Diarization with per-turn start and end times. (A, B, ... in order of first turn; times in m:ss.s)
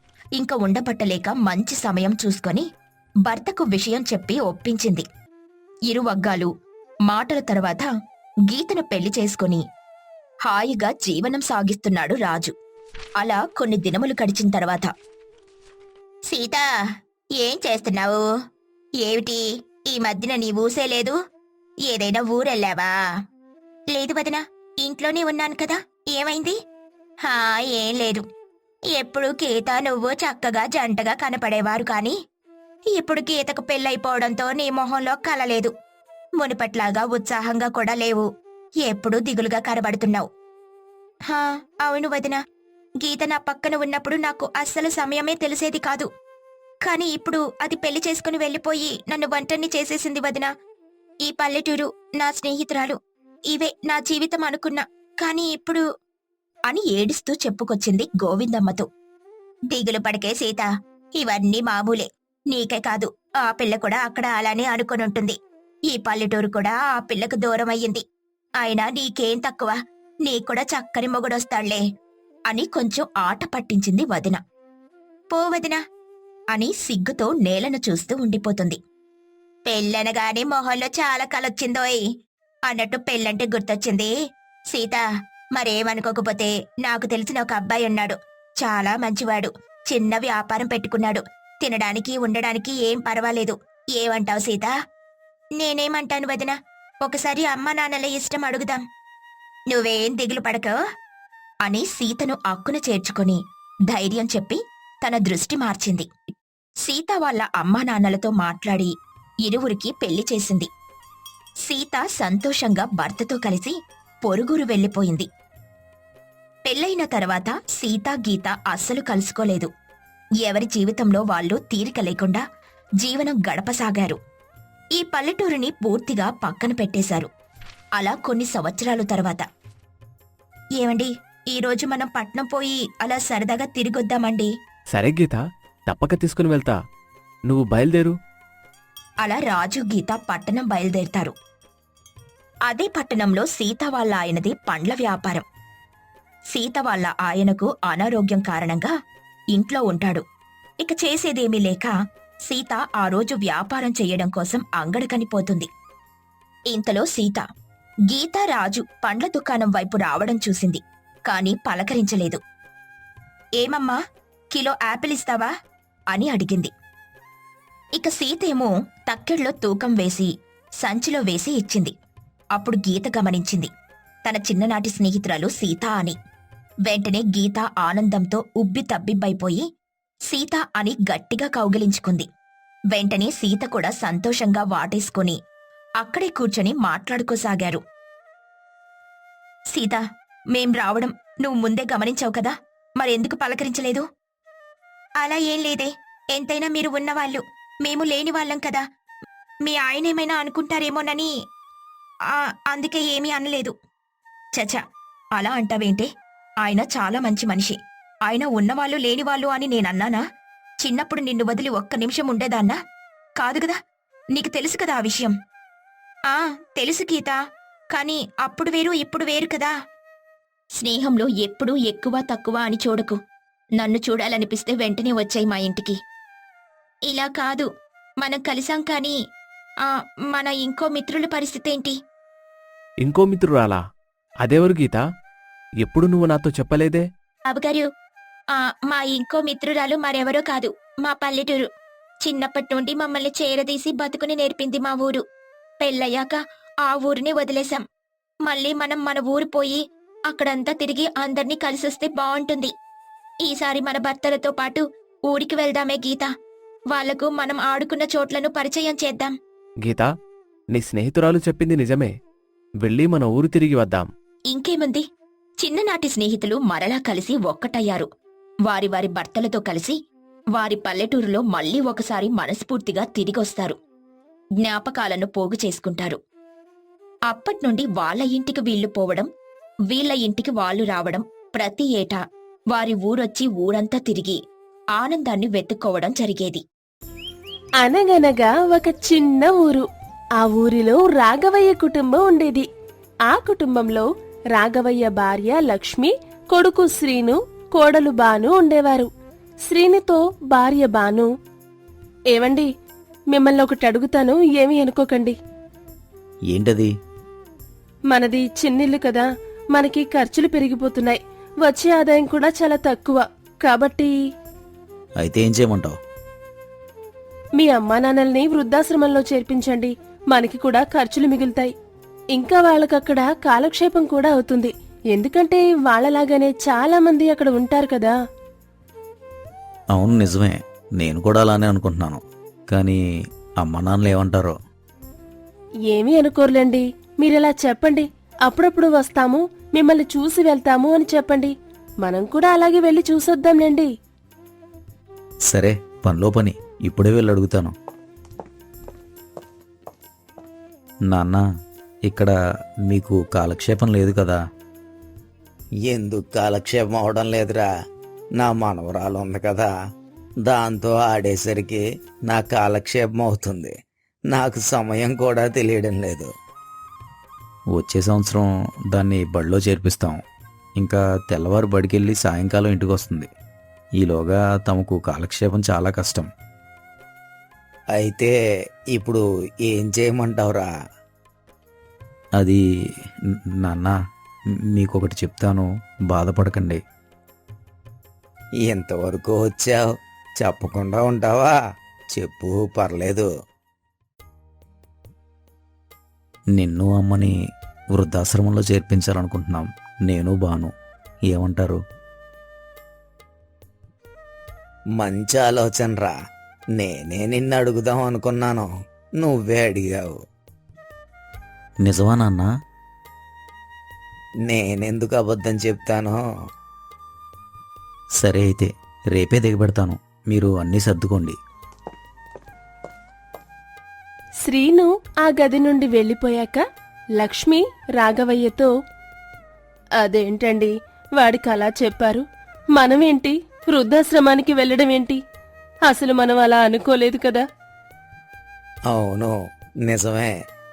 0:00.4-0:02.7 A
0:03.2-0:05.0 A
0:05.9-0:06.5 A
0:07.0-0:07.9 A
0:08.5-0:09.6 A
0:10.4-0:12.5 A
0:13.2-0:14.9 A
0:16.3-0:16.6 A
0:17.4-0:18.2 A
0:19.0-0:21.2 A
0:21.8-0:22.9 A
0:23.9-0:26.6 A
0:27.2-0:28.2 A
0:28.9-0:32.2 A
0:32.9-0:35.7 A
0:36.4-0:38.2 A
0:38.8-0:40.3 A
0:41.3-0:42.4 A
0:43.0-0:46.1 A
0:46.8-0:50.5 A
0:51.2-0:53.0 A
0:53.5-0:55.8 A
0:56.7-0:58.9 A
0:59.7-1:05.4 A
1:05.9-1:08.0 A
1:08.6-1:11.8 A
1:12.5-1:14.4 A
1:15.3-1:15.8 A
1:16.5-1:18.8 A
1:19.7-1:22.0 A
1:22.7-1:24.1 A
1:24.7-1:25.0 A
1:25.6-1:34.7 A
1:35.6-1:38.8 A
1:39.7-1:40.8 A
1:41.6-1:46.1 A
1:46.8-1:48.9 A
1:49.4-1:50.7 A
1:51.6-1:55.3 A
1:56.6-1:59.7 A
2:00.4-2:02.4 A
2:03.0-2:04.2 A
2:05.0-2:07.3 A
2:08.0-2:09.4 A
2:10.8-2:14.5 A
2:14.9-2:16.8 B
2:17.5-2:18.1 B
2:19.2-2:21.3 A
2:22.7-2:25.4 A
2:26.5-2:28.9 A
2:29.5-2:30.2 A
2:30.8-2:31.9 A
2:32.5-2:35.7 A
2:36.7-2:37.4 A
2:38.1-2:42.4 A
2:43.6-2:44.0 A
2:44.5-2:45.5 A
2:46.1-2:46.7 A
2:48.0-2:51.9 A
2:52.6-2:53.7 A
2:54.2-2:56.2 A
2:56.9-2:59.6 A
3:00.3-3:02.2 A
3:02.9-3:05.4 A
3:06.0-3:07.8 A
3:09.7-3:10.0 A
3:10.5-3:14.0 A
3:15.2-3:18.8 A
3:19.6-3:21.3 A
3:22.3-3:23.7 A
3:25.4-3:26.1 A
3:26.6-3:30.2 A
3:30.8-3:32.8 A
3:33.4-3:33.8 A
3:34.3-3:35.3 A
3:36.3-3:37.4 A
3:37.9-3:39.7 A
3:40.8-3:43.2 A
3:43.8-3:46.0 A
3:47.1-3:47.7 A
3:48.2-3:49.2 A
3:49.8-3:52.0 A
3:53.0-3:53.8 B
3:54.4-3:55.0 B
3:55.8-3:57.0 B
3:57.5-3:57.9 A
3:58.5-4:01.7 A
4:02.2-4:05.2 A
4:05.8-4:07.8 A
4:08.4-4:12.7 A
4:13.4-4:16.3 A
4:16.9-4:19.4 A
4:20.7-4:22.1 B
4:22.8-4:24.1 B
4:24.5-4:25.0 A
4:25.6-4:28.1 A
4:28.6-4:30.0 A
4:30.6-4:33.8 A
4:34.6-4:36.2 A
4:37.3-4:39.3 A
4:39.9-4:42.2 A
4:42.7-4:44.4 A
4:45.0-4:46.6 A
4:47.8-4:49.8 C
4:50.4-4:52.7 C
4:53.3-4:59.1 C
4:59.7-5:01.3 C
5:02.3-5:02.7 C
5:03.3-5:05.4 C
5:06.5-5:06.9 D
5:08.1-5:14.1 C
5:15.2-5:16.0 D
5:17.6-5:21.7 C
5:22.4-5:28.2 C
5:29.9-5:33.0 D
5:33.6-5:34.6 D
5:35.9-5:43.9 C
5:45.5-5:47.7 D
5:51.1-5:51.4 D
5:52.1-5:52.3 D
5:52.9-5:54.4 D
5:55.9-5:57.6 E
5:58.4-5:59.7 E
6:00.4-6:03.7 E
6:04.3-6:06.3 E
6:07.7-6:10.2 D
6:10.8-6:13.3 D
6:14.0-6:16.3 D
6:18.0-6:18.3 E
6:18.9-6:20.7 E
6:23.6-6:24.0 D
6:24.8-6:26.8 D
6:28.7-6:29.8 E
6:30.4-6:31.6 E
6:32.1-6:33.3 E
6:36.5-6:37.3 D
6:37.9-6:40.7 D
6:41.3-6:41.8 D
6:45.0-6:46.1 E
6:46.8-6:48.7 E
6:49.2-6:50.1 E
6:51.8-6:52.5 D
6:54.5-6:56.2 E
6:58.2-7:01.4 D
7:04.4-7:06.6 C
7:07.2-7:08.7 C
7:10.0-7:12.2 C
7:12.8-7:15.2 C
7:15.9-7:17.4 C
7:18.9-7:19.3 E
7:19.8-7:20.3 E